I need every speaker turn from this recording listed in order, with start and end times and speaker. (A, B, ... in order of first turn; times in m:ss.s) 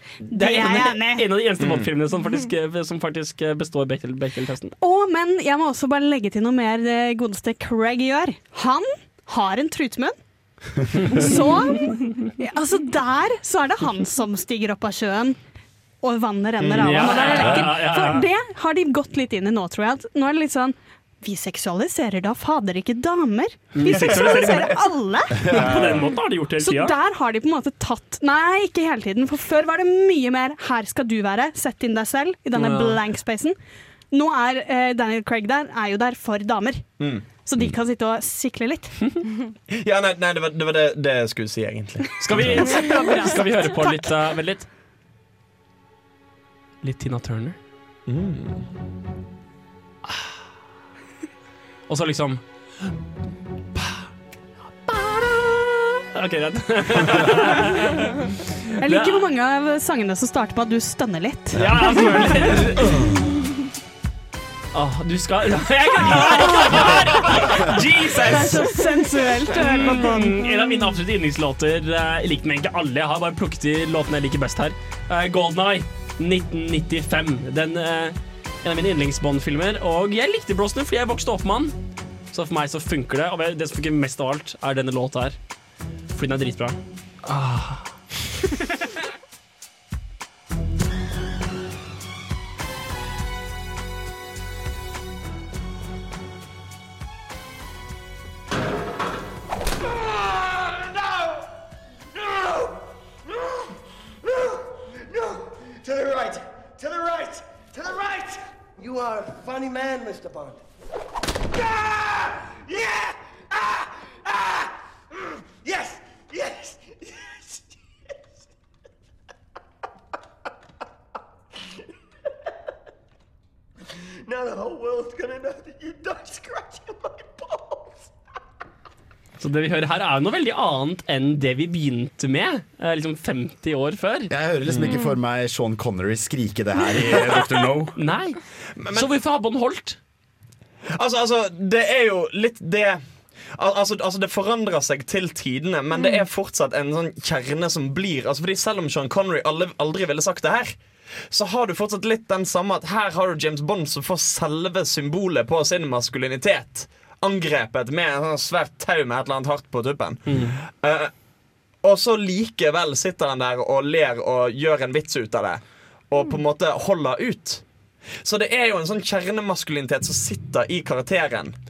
0:00.3-0:04.7 A
0:00.3-0:01.2 B
0:01.6-0:01.9 C
0:04.8-0:10.2 B
0:11.1-0:11.4 A
0:11.1-0:15.4 B
0:16.0-0:26.1 B
0:16.6-0:17.2 C
0:16.8-0:18.2 A
0:23.7-0:27.0 A
0:26.6-0:33.6 B
0:32.5-0:33.0 A
0:34.1-0:39.2 B
0:39.7-0:42.7 C
0:42.2-0:44.7 A
0:42.6-0:44.0 B
0:46.8-0:47.6 A
0:48.1-0:48.7 C
0:51.9-0:52.4 A
0:53.8-0:54.1 A
0:54.8-0:59.2 A
0:58.8-1:02.5 B
1:01.5-1:03.2 A
1:04.7-1:21.7 A
1:06.2-1:06.7 B
1:08.1-1:10.5 B
1:22.3-1:25.4 A
1:26.1-1:27.9 A
1:39.8-1:41.5 D
1:42.1-1:42.8 D
1:44.2-1:50.6 D
1:51.5-1:54.7 D
1:55.6-1:57.6 D
2:04.2-2:08.1 D
2:09.4-2:14.3 A
2:14.3-2:17.9 E
2:17.9-2:18.4 A
2:18.8-2:19.1 C
2:18.9-2:20.0 A
2:20.9-2:23.0 C
2:23.5-2:30.8 C
2:31.3-2:41.1 C
2:40.3-2:40.6 A
2:41.8-2:47.6 C
2:48.2-2:51.6 C